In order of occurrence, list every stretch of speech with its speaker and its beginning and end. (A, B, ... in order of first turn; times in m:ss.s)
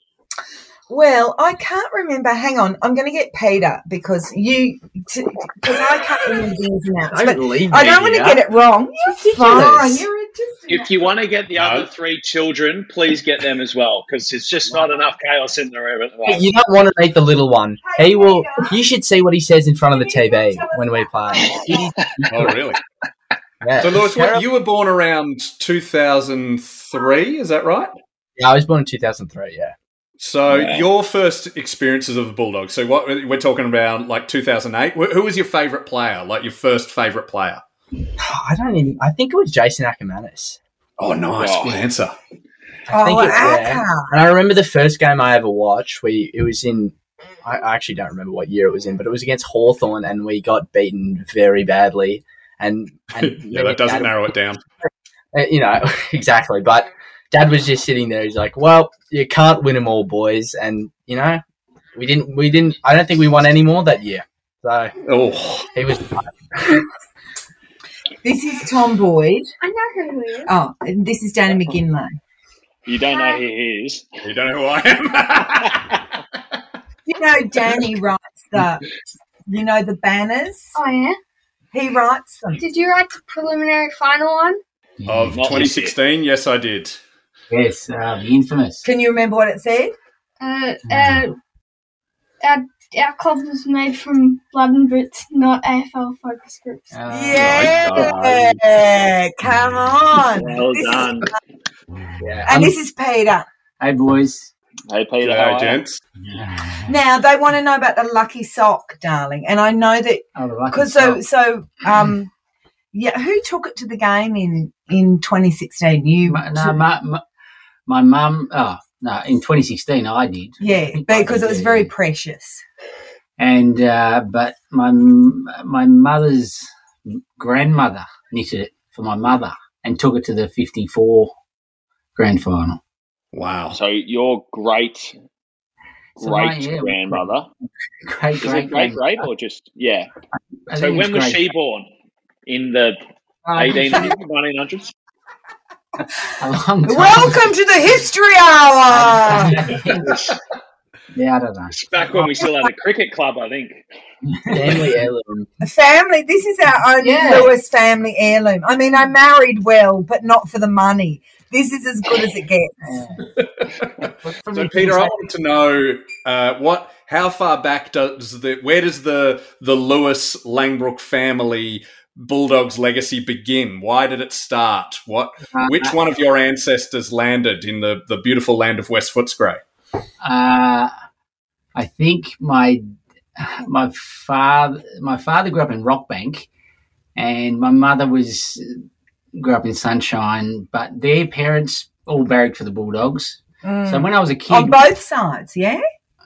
0:00.9-0:11.1 A
0:07.1-0:08.4 B
0:09.1-0:10.0 C
0:09.3-0:10.0 B
0:10.7-0:16.4 D
0:11.5-0:11.9 E
0:16.2-0:21.9 B
0:17.8-0:18.8 A
0:19.9-0:21.9 A
0:22.3-0:22.8 E
0:23.6-0:24.4 B
0:23.8-0:27.9 E
0:28.4-0:29.8 B
0:30.2-0:37.6 E
0:30.5-0:30.8 D
0:38.2-0:40.6 B
0:41.0-0:42.2 E
0:41.4-0:41.8 D
0:42.9-0:44.1 A
0:42.9-0:54.3 B
0:53.2-0:54.6 E
0:54.8-1:01.4 B
1:01.9-1:04.9 B
1:05.0-1:05.7 E
1:05.7-1:06.3 B
1:08.2-1:09.5 A
1:09.6-1:10.5 C
1:10.5-1:12.2 A
1:12.8-1:14.1 D
1:13.1-1:13.4 C
1:14.2-1:16.0 E
1:17.0-1:18.8 A
1:19.5-1:20.7 A
1:20.7-1:21.2 C
1:21.7-1:22.6 A
1:22.6-1:24.6 C
1:25.0-1:25.7 F
1:25.1-1:27.0 E
1:25.3-1:25.9 D
1:27.5-1:28.8 F
1:28.8-1:29.9 A
1:30.4-1:31.4 C
1:30.8-1:31.2 F
1:32.4-1:37.0 C
1:36.9-1:38.6 F
1:37.1-1:41.3 A
1:37.3-1:38.1 E
1:40.3-1:41.3 D
1:42.0-1:42.7 F
1:42.4-1:43.5 A
1:43.8-1:44.5 F
1:44.9-1:45.8 D
1:45.2-1:46.0 E
1:46.2-1:46.9 F
1:46.8-1:52.3 A
1:50.4-1:51.2 F
1:52.9-1:56.8 A
1:56.2-1:57.2 F
1:57.9-2:01.9 F
2:00.6-2:02.6 A
2:03.4-2:06.7 F
2:07.4-2:11.3 F
2:12.2-2:12.8 F
2:13.3-2:13.8 E
2:13.7-2:15.1 D
2:16.2-2:17.3 F
2:16.2-2:17.5 D
2:18.0-2:19.2 F
2:18.4-2:20.1 D
2:20.7-2:21.4 F
2:20.7-2:21.9 D
2:22.4-2:23.0 D
2:23.5-2:24.1 F
2:23.5-2:24.9 D
2:26.4-2:27.5 F
2:26.8-2:29.6 A
2:28.9-2:30.1 F
2:30.0-2:30.4 D
2:31.1-2:31.8 F
2:31.7-2:33.8 D
2:34.3-2:34.9 F
2:34.5-2:35.5 B
2:35.6-2:43.0 A
2:37.0-2:37.5 F
2:42.9-2:43.3 F
2:43.6-2:59.6 E
2:44.2-2:45.2 F
2:55.5-2:55.9 F
3:00.2-3:00.9 F
3:01.7-3:02.8 F
3:03.4-3:06.5 F
3:07.2-3:08.8 F
3:09.4-3:14.8 F
3:13.6-3:15.8 A